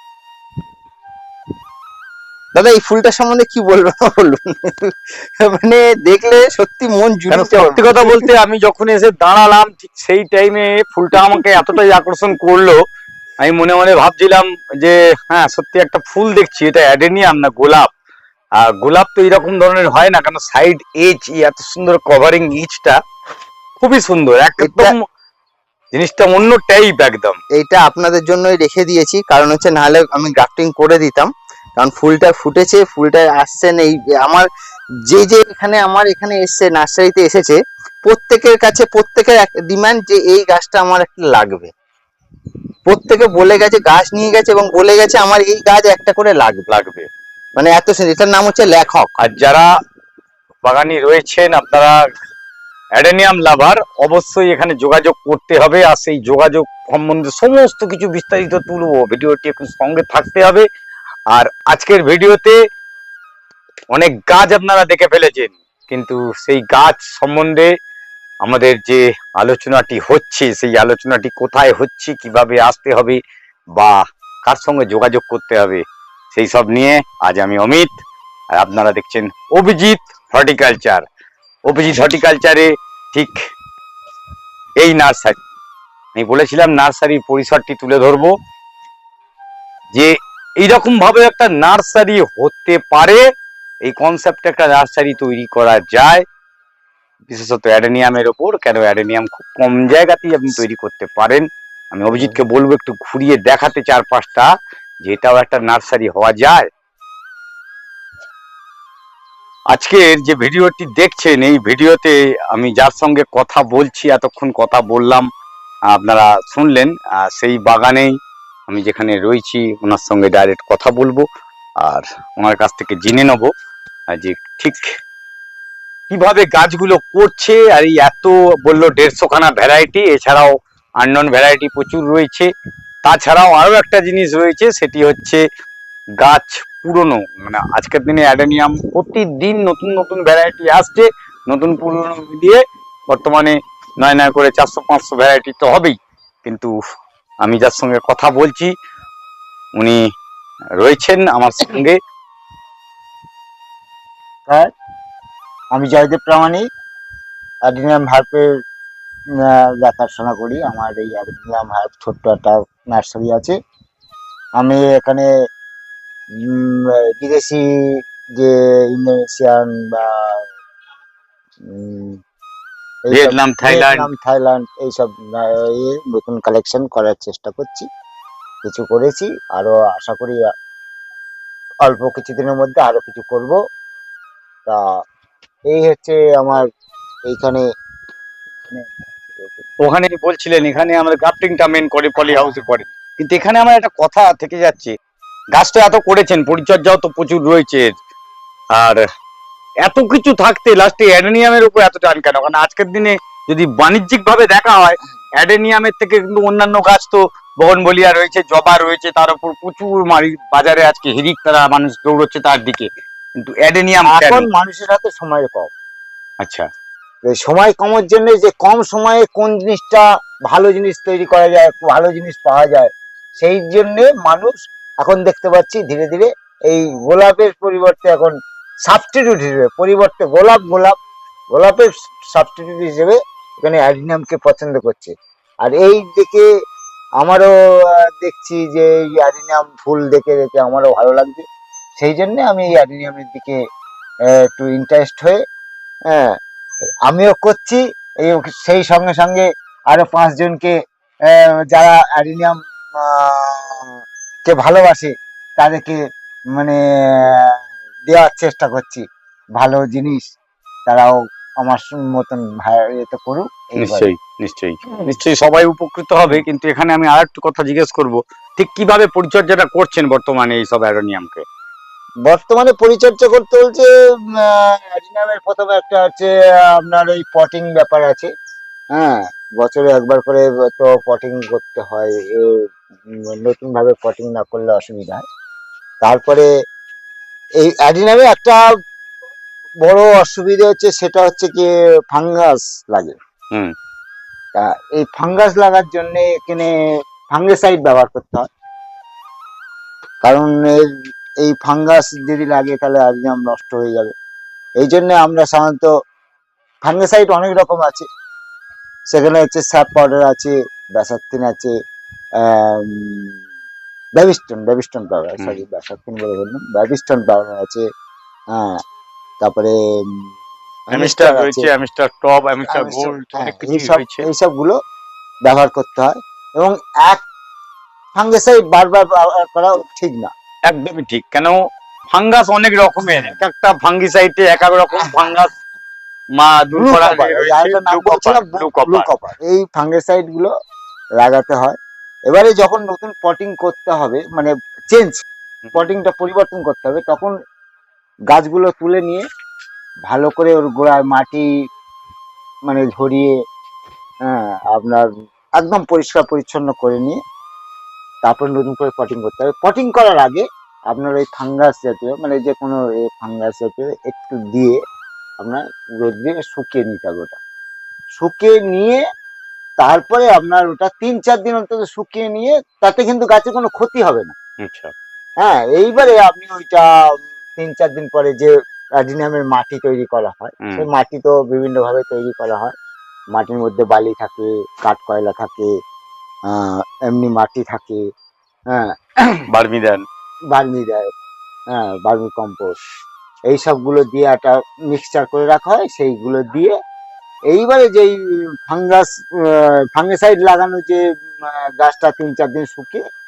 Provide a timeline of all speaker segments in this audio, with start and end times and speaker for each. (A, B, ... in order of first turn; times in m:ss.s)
0:02.5-0:08.3 A
0:07.3-0:12.8 B
0:13.4-0:17.9 B
0:18.6-0:23.0 B
0:23.8-0:25.0 B
0:24.6-0:24.9 A
0:25.9-0:27.4 B
0:27.5-0:34.5 A
0:35.1-0:41.7 A
0:42.9-0:46.7 A
0:46.7-0:47.1 B
0:47.6-0:49.1 A
0:49.2-0:49.7 B
0:50.6-0:52.0 B
0:53.0-1:00.6 B
1:01.3-1:02.6 B
1:03.9-1:07.7 B
1:08.4-1:13.2 B
1:13.7-1:17.9 B
1:18.5-1:21.0 B
1:21.7-1:23.4 B
1:24.8-1:25.4 B
1:26.1-1:28.3 B
1:29.9-1:33.2 B
1:33.8-1:36.2 B
1:37.3-1:44.5 B
1:45.0-1:46.7 B
1:49.7-1:55.3 B
1:55.9-1:58.1 B
1:58.7-2:01.2 B
2:01.8-2:03.5 B
2:04.1-2:05.0 B
2:06.1-2:12.5 B
2:13.0-2:15.4 B
2:16.2-2:26.7 B
2:27.4-2:28.7 B
2:30.8-2:32.0 B
2:35.7-2:36.6 C
2:37.7-2:38.4 C
2:39.5-2:43.6 C
2:44.6-2:45.3 C
2:46.4-2:47.6 C
2:48.4-2:50.4 C
2:51.6-2:52.2 C
2:53.0-2:57.9 C
2:53.1-2:54.1 B
2:58.6-3:00.5 C
3:01.8-3:03.6 C
3:05.7-3:06.6 C
3:07.3-3:07.6 C
3:08.7-3:09.6 C
3:09.8-3:14.9 B
3:15.5-3:17.9 B
3:18.7-3:19.0 B
3:19.8-3:34.4 B
3:34.0-3:35.7 C
3:36.4-3:36.7 B
3:37.3-3:48.3 C
3:48.8-3:51.0 C
3:51.5-3:56.4 C
3:57.2-3:57.5 C
3:58.0-4:01.4 C
4:02.0-4:03.6 C
4:04.4-4:05.4 C
4:06.1-4:06.3 C
4:07.1-4:10.7 C
4:11.3-4:16.0 C
4:16.5-4:17.5 C
4:18.1-4:19.0 C
4:19.6-4:20.3 C
4:20.9-4:24.1 C
4:23.8-4:31.4 B
4:32.2-4:38.3 C
4:38.9-4:45.2 C
4:46.0-4:46.5 C
4:47.6-4:48.6 C
4:49.8-4:53.1 C
4:54.6-4:56.7 C
4:57.3-4:58.5 C
5:00.2-5:00.9 C
5:01.4-5:04.1 C
5:04.8-5:05.9 C
5:06.8-5:08.0 C
5:09.1-5:11.7 C
5:12.4-5:13.3 C
5:14.2-5:17.8 C
5:18.5-5:18.8 C
5:19.4-5:20.3 C
5:20.9-5:21.7 C
5:20.9-5:24.2 B
5:22.7-5:24.8 C
5:25.4-5:27.2 C
5:28.1-5:30.3 C
5:30.7-5:31.6 B
5:32.1-5:35.5 B
5:35.0-5:35.3 C
5:36.4-5:39.1 B
5:36.8-5:40.5 C
5:41.2-5:41.8 C
5:42.3-5:45.2 C
5:45.7-5:47.3 C
5:48.3-5:49.2 C
5:50.1-5:51.4 C
5:52.7-5:53.3 C
5:54.3-5:55.0 C
5:55.6-5:57.2 C
5:58.2-6:04.8 C
6:05.4-6:07.4 C
6:08.2-6:09.0 C
6:09.8-6:14.3 C
6:14.6-6:14.9 B
6:15.4-6:22.7 C
6:23.3-6:25.7 C
6:26.5-6:28.0 C
6:28.7-6:29.4 C
6:29.5-6:30.0 B
6:30.5-6:31.1 C
6:31.7-6:32.7 C
6:33.5-6:36.7 C
6:37.5-6:38.1 C
6:38.7-6:43.0 C